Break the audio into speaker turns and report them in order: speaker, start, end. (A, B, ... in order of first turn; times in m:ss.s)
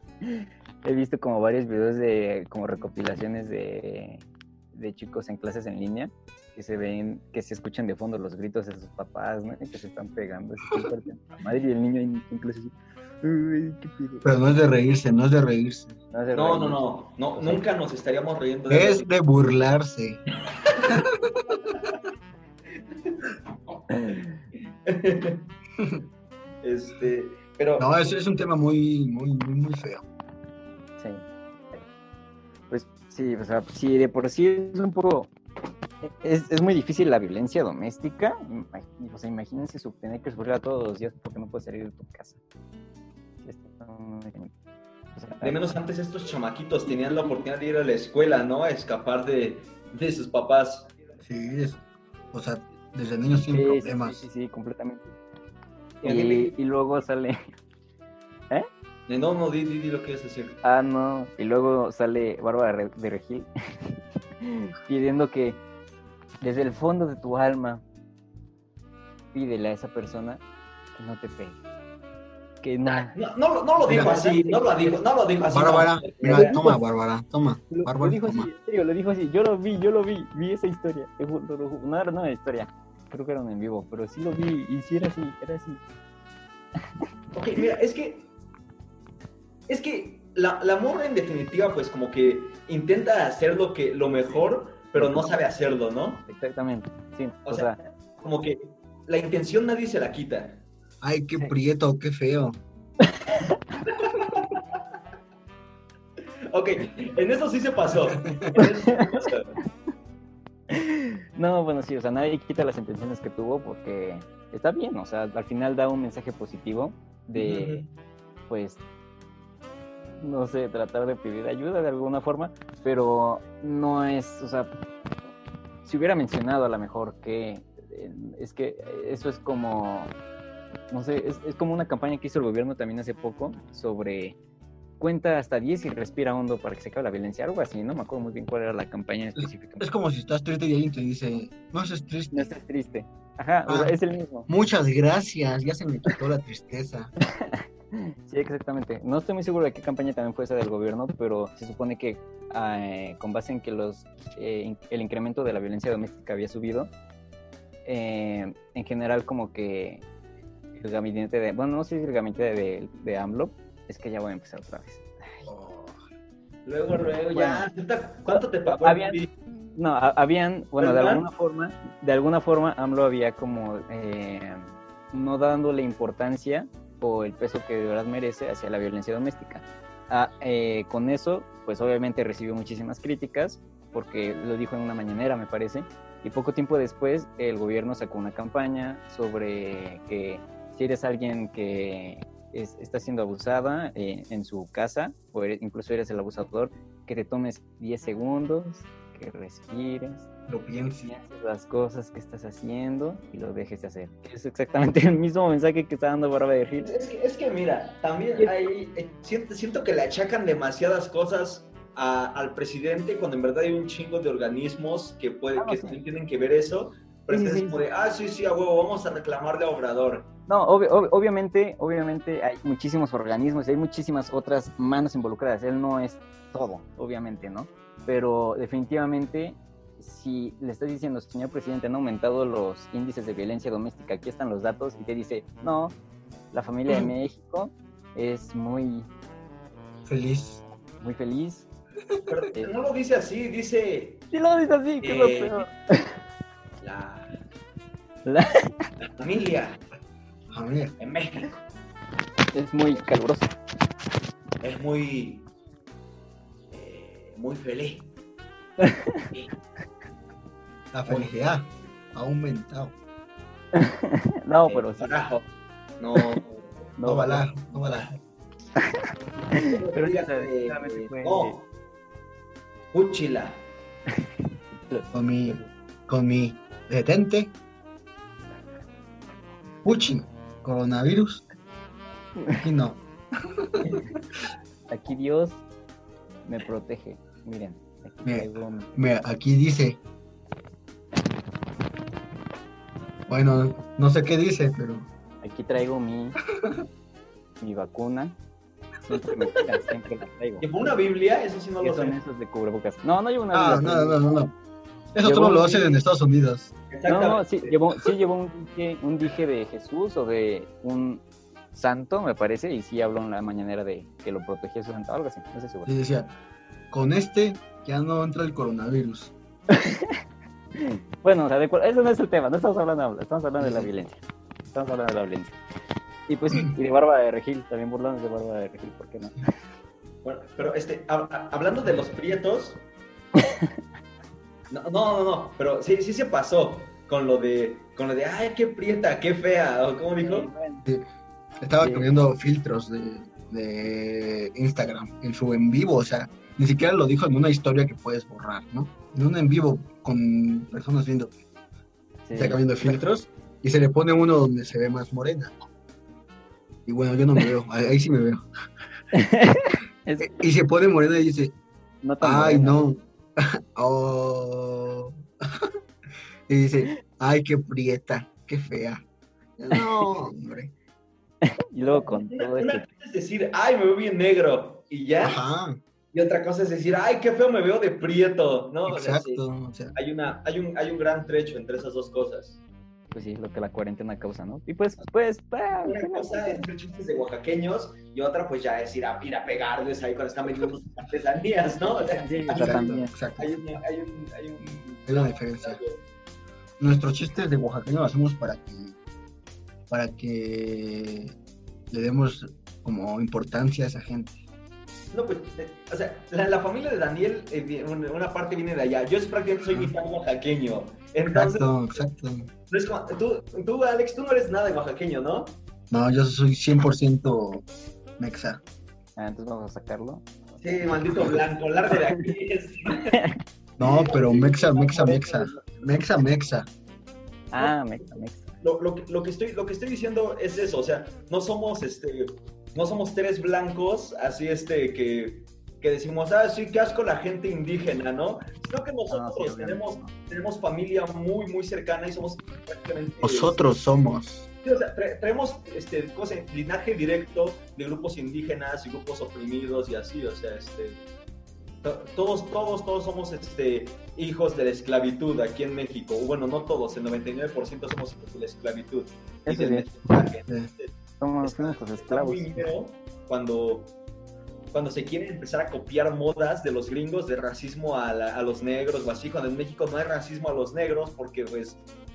0:00.2-0:14.2 A
0:14.2-0:16.0 B
0:16.1-0:17.6 A
0:16.3-0:19.1 C
0:18.7-0:20.2 B
0:20.6-0:20.9 C
0:20.9-0:21.4 B
0:23.0-0:23.8 C
0:23.9-0:24.4 A
0:24.9-0:25.4 C
0:25.8-0:26.0 B
0:26.6-0:28.1 C
0:27.8-0:30.0 B
0:31.0-0:31.2 A
0:32.7-0:35.3 A
0:36.2-0:42.4 A
0:43.4-0:44.5 A
0:45.1-0:45.8 A
0:45.4-0:50.9 C
0:46.9-0:47.4 A
0:51.2-0:54.2 B
0:53.5-0:55.1 A
0:56.0-0:56.5 C
0:56.0-0:57.4 A
0:59.1-1:00.6 C
1:00.6-1:05.6 A
1:06.4-1:07.8 A
1:09.3-1:10.4 A
1:10.9-1:11.6 A
1:12.6-1:13.2 A
1:12.8-1:16.6 C
1:13.9-1:14.1 B
1:13.9-1:15.0 A
1:15.5-1:18.5 B
1:16.0-1:16.8 A
1:17.7-1:25.8 A
1:27.3-1:28.3 C
1:29.7-1:36.3 C
1:35.0-1:35.2 A
1:36.3-1:37.9 A
1:37.4-1:40.6 C
1:41.0-1:42.6 B
1:43.0-1:43.6 A
1:43.9-1:44.5 C
1:46.5-1:49.5 C
1:48.2-1:48.5 B
1:48.6-1:49.0 A
1:50.7-1:57.8 A
1:57.4-1:57.9 C
1:58.5-1:58.8 A
2:00.2-2:04.7 A
2:05.8-2:10.1 A
2:10.9-2:14.4 A
2:15.0-2:19.9 A
2:19.4-2:22.5 B
2:22.3-2:24.5 A
2:23.7-2:27.1 B
2:27.3-2:36.9 A
2:37.8-2:40.0 A
2:40.7-2:45.4 A
2:45.4-2:46.0 B
2:46.6-2:49.3 C
2:47.3-2:47.7 A
2:48.2-2:49.2 A
2:49.7-3:20.3 A
2:50.8-2:51.2 C
3:20.5-3:21.1 B
3:21.0-3:26.9 A
3:26.8-3:40.3 C
3:28.4-3:28.6 A
3:35.6-3:36.0 A
3:37.3-3:37.8 A
3:40.5-3:56.0 A
3:56.5-3:59.1 A
4:00.0-4:00.6 B
4:01.0-4:01.7 A
4:02.3-4:04.2 C
4:04.3-4:06.1 A
4:05.0-4:05.6 C
4:06.8-4:07.4 C
4:08.2-4:08.7 A
4:09.2-4:09.8 C
4:10.5-4:10.9 B
4:11.0-4:11.5 C
4:12.5-4:13.5 A
4:14.6-4:15.5 C
4:16.7-4:18.1 C
4:18.8-4:19.2 A
4:20.9-4:22.9 B
4:21.0-4:21.3 C
4:23.7-4:25.2 A
4:24.6-4:26.8 C
4:27.0-4:27.5 A
4:27.0-4:28.1 B
4:27.8-4:28.2 C
4:28.8-4:31.6 A
4:29.5-4:31.6 C
4:32.9-4:33.6 C
4:34.9-4:35.7 A
4:35.1-4:37.5 B
4:39.8-4:41.4 B
4:42.5-4:43.8 B
4:44.9-4:45.6 A
4:46.4-4:48.9 A
4:48.2-4:50.0 B
4:53.3-4:55.1 B
4:55.4-4:56.4 A
4:57.6-4:58.4 A
4:59.0-5:00.7 A
5:00.6-5:02.2 C
5:01.8-5:04.2 A
5:03.5-5:04.5 B
5:05.1-5:06.7 B
5:05.2-5:06.0 A
5:06.9-5:07.8 C
5:07.1-5:15.9 A
5:15.8-5:16.3 B
5:16.9-5:19.3 B
5:19.7-5:20.2 A
5:20.7-5:24.2 A
5:23.6-5:23.9 B
5:24.7-5:25.6 A
5:26.3-5:29.5 A
5:30.2-5:32.8 C
5:34.7-5:40.5 C
5:40.2-5:40.8 A
5:41.6-5:51.4 B
5:41.8-5:42.1 A
5:52.2-5:53.0 A
5:52.3-5:55.5 B
5:56.8-5:58.4 B
5:59.1-6:00.3 A
6:00.2-6:01.5 B
6:02.0-6:02.8 A
6:02.2-6:05.7 B
6:06.5-6:09.0 B
6:09.6-6:10.7 B
6:09.7-6:10.0 A
6:11.4-6:12.9 A
6:11.8-6:15.4 C
6:15.2-6:15.8 B
6:16.1-6:22.6 C
6:18.9-6:19.9 B
6:23.1-6:26.7 A
6:25.8-6:36.0 C
6:31.9-6:33.1 A
6:32.5-6:33.8 B
6:35.0-6:35.8 B
6:36.8-6:39.0 B
6:39.9-6:41.3 B
6:41.9-6:44.4 B
6:45.1-6:52.0 C
6:49.7-6:49.9 B
6:51.3-6:52.5 B
6:52.7-6:55.6 C
6:55.9-6:57.6 B
6:58.2-6:58.6 B
6:59.2-7:01.3 A
7:00.6-7:03.2 C
7:03.8-7:06.7 B
7:03.8-7:06.3 C
7:07.5-7:08.5 A
7:07.6-7:23.7 C
7:19.1-7:20.1 A
7:23.2-7:24.5 B
7:24.6-7:31.0 C
7:31.8-7:43.9 C
7:39.5-7:39.9 A
7:41.2-7:42.7 A
7:44.7-7:51.8 C